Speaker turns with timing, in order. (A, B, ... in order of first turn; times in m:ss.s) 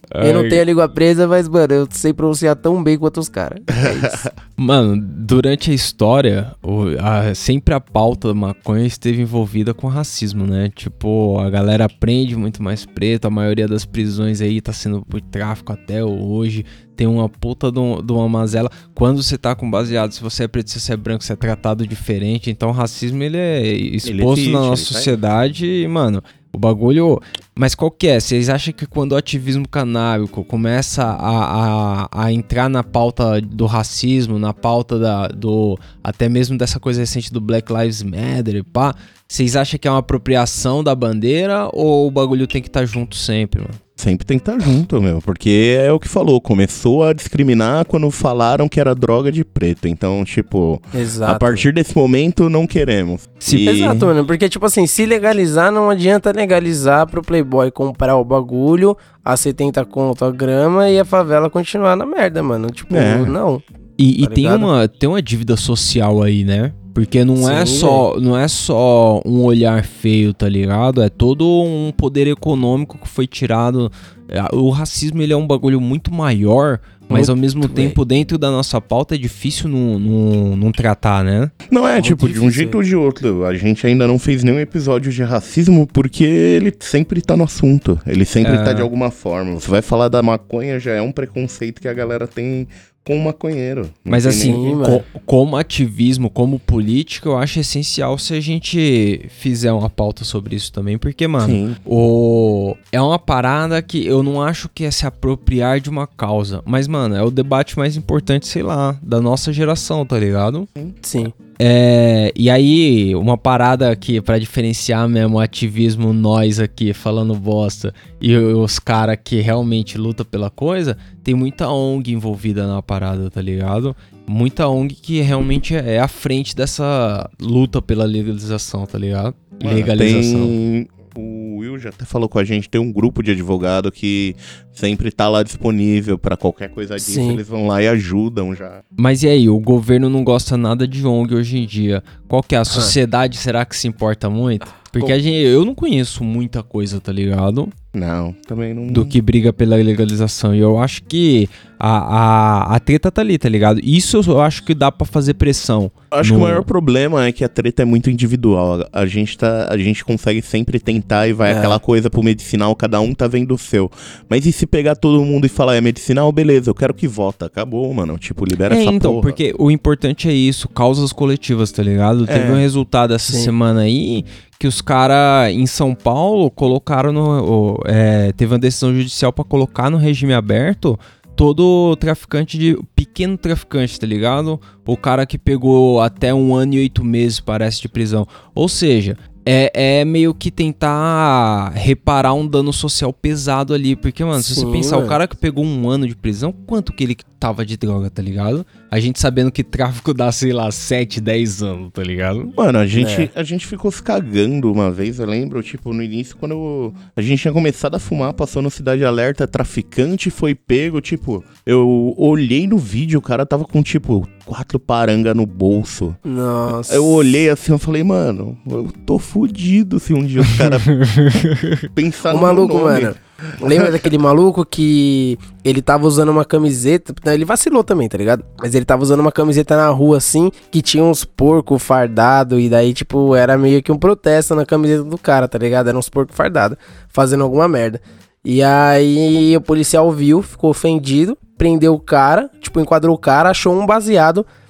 0:00.1-0:00.6 A
0:00.2-0:04.2 B
0:03.8-0:04.3 C
0:04.6-0:43.8 A
0:24.0-0:25.1 C
0:44.0-0:54.1 C
0:50.9-0:51.7 B
0:53.5-1:03.6 B
1:02.9-1:03.4 C
1:04.0-1:21.5 A
1:04.2-1:04.7 B
1:07.4-1:08.0 B
1:17.1-1:18.0 B
1:21.7-1:34.6 C
1:22.0-1:22.8 B
1:28.4-1:28.9 A
1:34.1-1:50.7 A
1:34.4-1:35.0 B
1:41.4-1:41.8 C
1:51.0-1:51.3 B
1:51.6-2:10.6 A
2:09.6-2:18.8 C
2:17.0-2:17.4 B
2:19.0-2:27.7 A
2:27.9-2:29.2 C
2:28.9-2:36.7 A
2:36.1-2:49.4 C
2:41.5-2:41.8 B
2:48.7-3:22.5 A
2:52.3-2:52.6 C
3:14.4-3:15.2 B
3:22.5-3:36.2 C
3:23.0-3:23.3 B
3:36.2-3:37.3 B
3:36.7-3:40.9 C
3:40.9-3:41.9 A
3:41.9-3:44.1 C
3:42.3-4:04.5 B